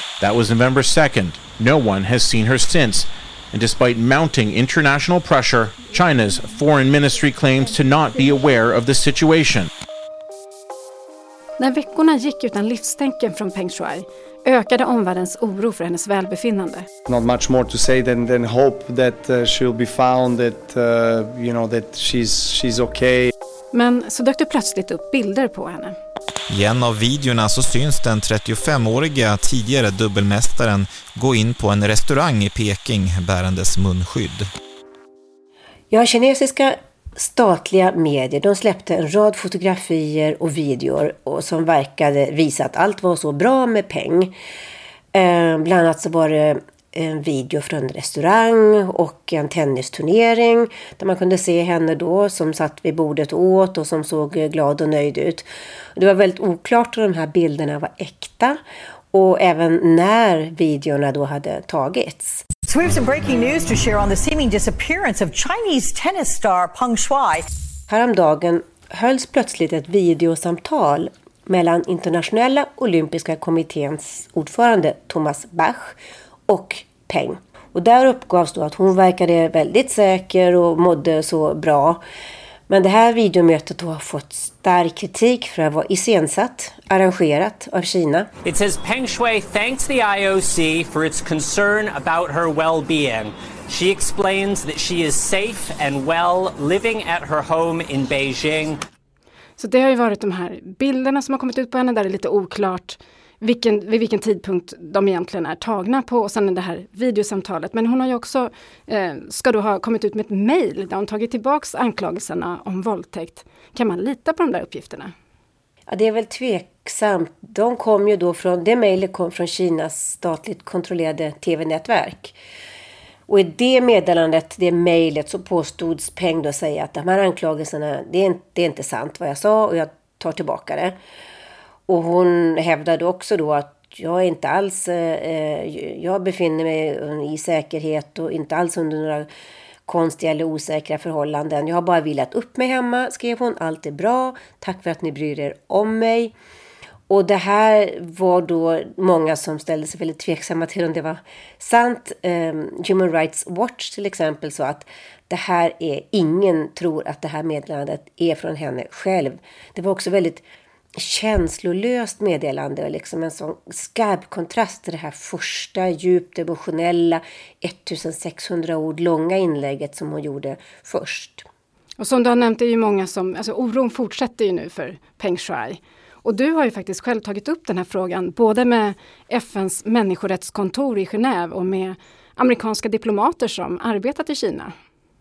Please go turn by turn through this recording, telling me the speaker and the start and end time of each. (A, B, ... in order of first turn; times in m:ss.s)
0:00.2-0:09.7 A
0:11.6-0:16.8 B
0:17.1-0:23.3 C
0:23.7-0:25.9 B
0:26.5-0:34.5 D
0:35.9-0:44.3 E
0:45.1-0:58.6 E
0:59.1-1:02.4 E
1:02.6-1:07.5 F
1:07.9-1:22.0 E
1:22.7-1:28.3 E
1:28.4-1:38.8 G
1:39.6-1:55.1 B
1:55.9-2:02.4 E
2:03.3-2:10.9 E
2:11.9-2:19.3 E
2:19.8-2:26.3 E
2:27.1-2:40.4 E
2:41.0-2:51.4 E
2:52.0-3:04.7 B